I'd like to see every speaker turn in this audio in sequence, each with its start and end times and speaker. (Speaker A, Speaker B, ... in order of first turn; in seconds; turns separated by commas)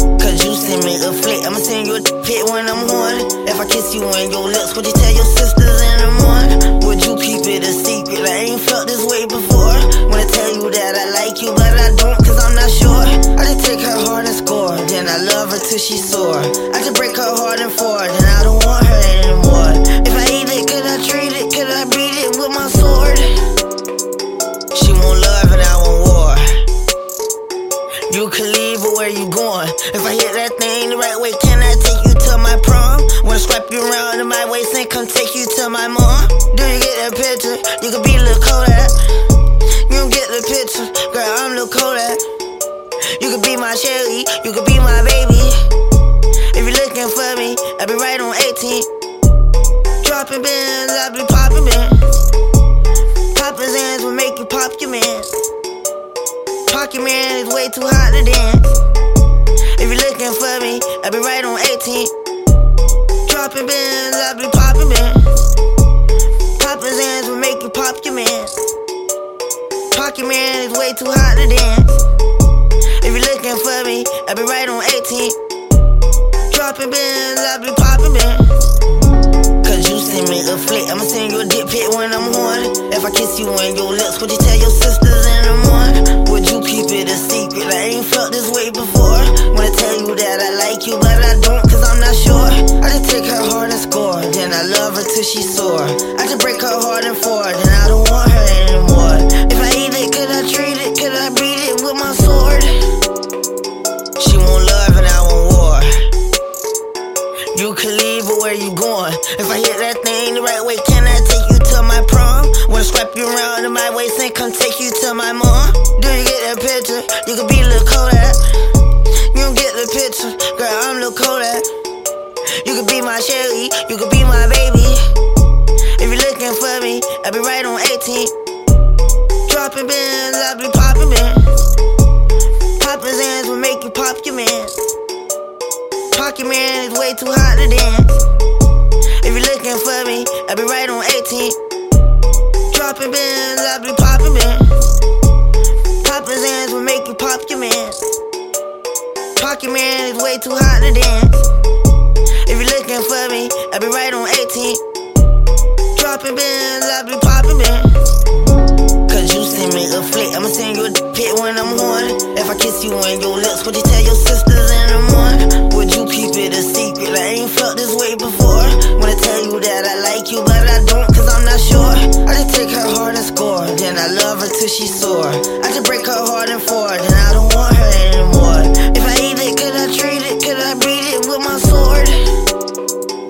Speaker A: 0.2-23.2, Speaker A: 24.7-26.6, Speaker A: 28.1-39.0, Speaker A: 39.9-42.2, Speaker A: 43.2-45.6, Speaker A: 46.5-48.9, Speaker A: 50.0-52.0, Speaker A: 53.4-55.4, Speaker A: 56.7-58.8, Speaker A: 59.8-62.1, Speaker A: 63.2-65.3, Speaker A: 66.6-68.7, Speaker A: 69.9-72.0, Speaker A: 73.0-75.4, Speaker A: 76.5-78.5, Speaker A: 79.6-102.7, Speaker A: 104.2-105.9, Speaker A: 107.5-118.4, Speaker A: 119.3-121.7, Speaker A: 122.6-125.0, Speaker A: 126.0-128.3, Speaker A: 129.5-131.5, Speaker A: 132.8-134.8, Speaker A: 136.1-138.2, Speaker A: 139.2-141.6, Speaker A: 142.7-144.7, Speaker A: 146.0-148.1, Speaker A: 149.4-151.4, Speaker A: 152.5-154.8, Speaker A: 155.9-157.9, Speaker A: 159.1-182.2